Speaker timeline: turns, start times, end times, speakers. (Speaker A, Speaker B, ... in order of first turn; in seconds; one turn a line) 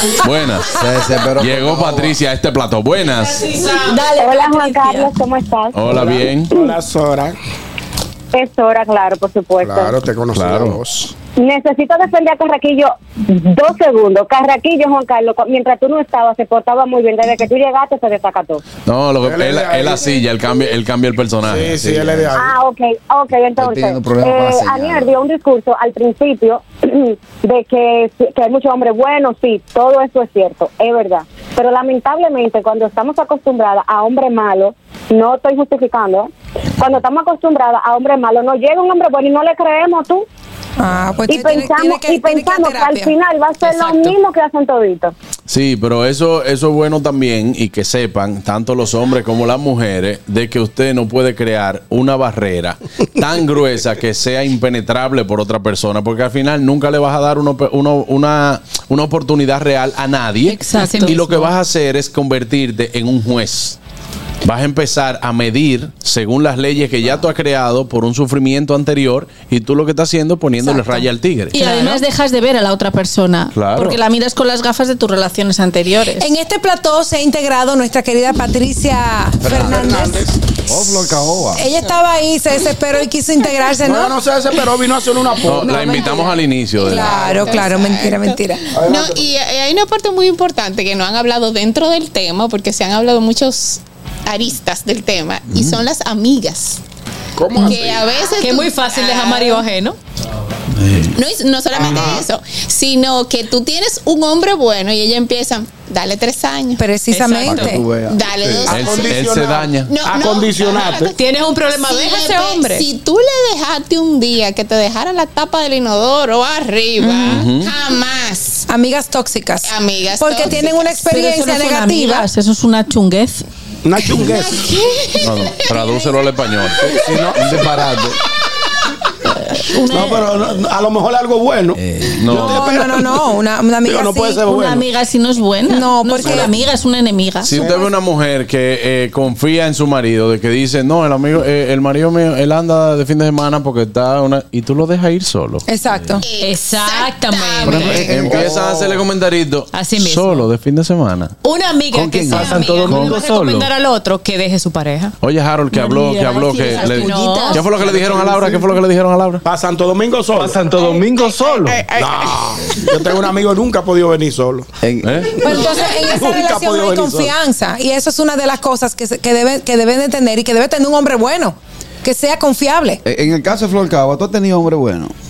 Speaker A: 0.2-0.7
Speaker B: 0.7-2.2
Speaker A: 1.4-3.5
Speaker C: 3.4-5.1
Speaker D: 4.1-6.2
Speaker A: 5.7-6.5
Speaker E: 6.5-7.4
Speaker D: 8.3-10.0
Speaker E: 9.6-11.1
Speaker A: 10.3-10.8
Speaker D: 11.4-18.6
Speaker A: 18.9-22.3
Speaker E: 19.2-20.2
Speaker E: 21.4-22.6
Speaker D: 22.4-40.3
Speaker B: 23.6-25.1
Speaker F: 40.8-43.1
Speaker D: 41.3-45.1
Speaker G: 43.6-44.1
Speaker A: 45.5-63.8
Speaker C: 60.5-61.4
Speaker G: 60.8-61.5
Speaker A: 64.4-71.6
Speaker F: 70.7-71.0
Speaker C: 71.5-76.3
Speaker G: 71.6-72.0
Speaker A: 73.5-74.0
Speaker F: 76.2-80.3
Speaker B: 79.4-80.1
Speaker E: 79.5-80.3
Speaker B: 80.7-81.7
Speaker F: 81.5-84.2
Speaker E: 83.8-86.1
Speaker A: 85.5-87.1
Speaker F: 85.6-88.7
Speaker H: 86.8-96.8
Speaker E: 87.0-87.6
Speaker E: 88.7-89.2
Speaker E: 97.4-98.1
Speaker H: 97.5-99.7
Speaker G: 98.4-100.0
Speaker H: 101.2-106.8
Speaker E: 101.7-102.3
Speaker F: 106.8-107.9
Speaker G: 107.1-107.8
Speaker B: 107.5-108.2
Speaker H: 108.1-109.2
Speaker E: 108.5-111.1
Speaker A: 108.7-109.9
Speaker H: 109.8-118.7
Speaker G: 111.1-112.9
Speaker F: 117.0-117.4
Speaker A: 117.3-117.7
Speaker F: 118.7-122.3
Speaker H: 119.6-121.0
Speaker C: 121.0-123.5
Speaker E: 123.8-124.6
Speaker H: 124.2-126.3
Speaker A: 125.2-127.0
Speaker E: 126.8-127.6
Speaker B: 127.3-128.2
Speaker C: 129.3-130.4
Speaker E: 129.9-133.2
Speaker B: 131.8-132.3
Speaker A: 132.2-132.8
Speaker F: 132.3-134.5
Speaker E: 133.8-134.9
Speaker C: 134.5-137.5
Speaker F: 135.7-136.5
Speaker E: 136.2-136.5
Speaker A: 137.4-145.7
Speaker E: 137.6-137.9
Speaker F: 145.7-146.2
Speaker H: 146.2-148.1
Speaker G: 146.4-148.1
Speaker B: 147.7-149.0
Speaker A: 147.9-151.3
Speaker G: 149.7-150.5
Speaker G: 151.4-155.2
Speaker B: 151.9-152.7
Speaker I: 152.3-153.7
Speaker A: 152.9-153.2
Speaker A: 155.2-159.4
Speaker C: 155.7-157.8
Speaker G: 156.8-157.7
Speaker E: 157.9-158.8
Speaker E: 159.4-160.6
Speaker I: 160.3-161.8
Speaker H: 160.7-163.0
Speaker E: 161.9-164.7
Speaker B: 164.8-165.7
Speaker A: 165.0-165.4
Speaker E: 165.4-167.3
Speaker F: 165.4-173.0
Speaker B: 173.1-175.1